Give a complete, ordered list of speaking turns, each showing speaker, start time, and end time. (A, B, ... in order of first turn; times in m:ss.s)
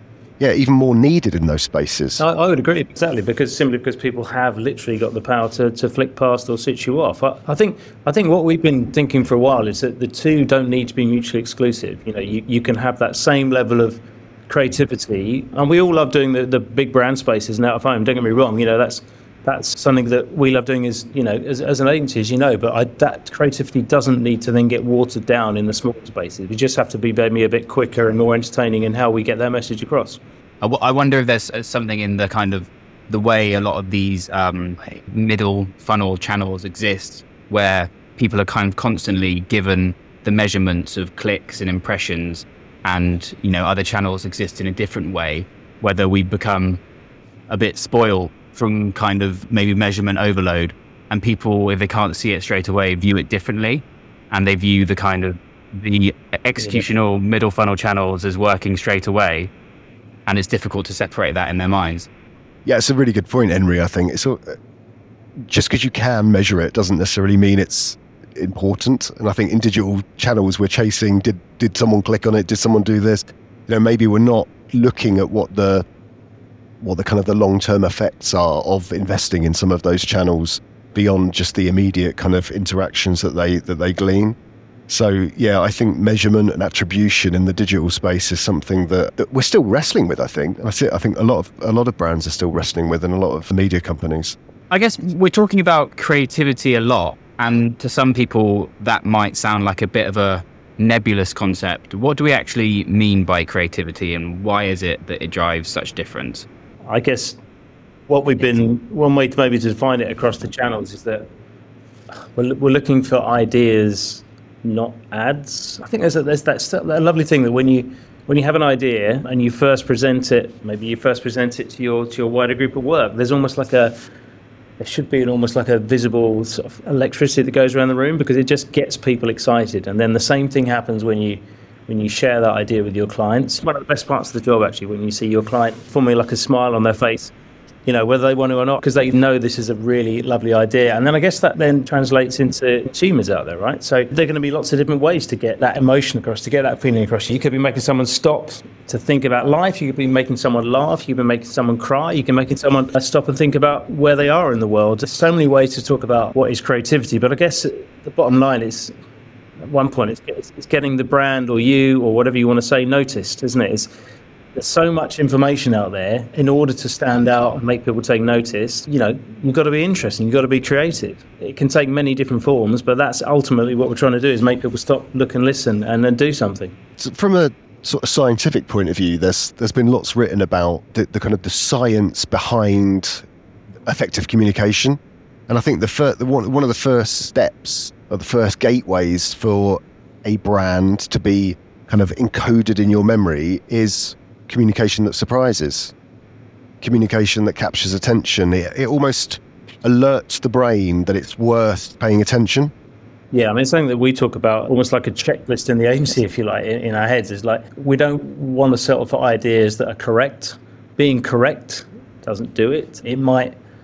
0:00.4-0:02.2 A
0:02.2-0:30.2 B
0:30.6-0:46.8 C
0:47.5-0:59.5 C
0:56.6-0:56.8 B
1:00.3-1:02.1 C
1:02.6-1:04.5 A
1:05.5-1:15.8 A
1:16.8-1:24.4 A
1:24.9-1:34.4 A
1:34.7-1:46.5 C
1:46.9-1:47.4 B
1:48.1-1:51.3 B
1:52.4-2:04.0 B
2:04.8-2:17.3 B
2:17.9-2:39.0 B
2:39.6-2:43.9 B
2:44.6-2:56.8 B
2:57.0-3:03.2 A
3:03.9-3:15.9 A
3:16.8-3:22.7 A
3:23.3-3:33.5 B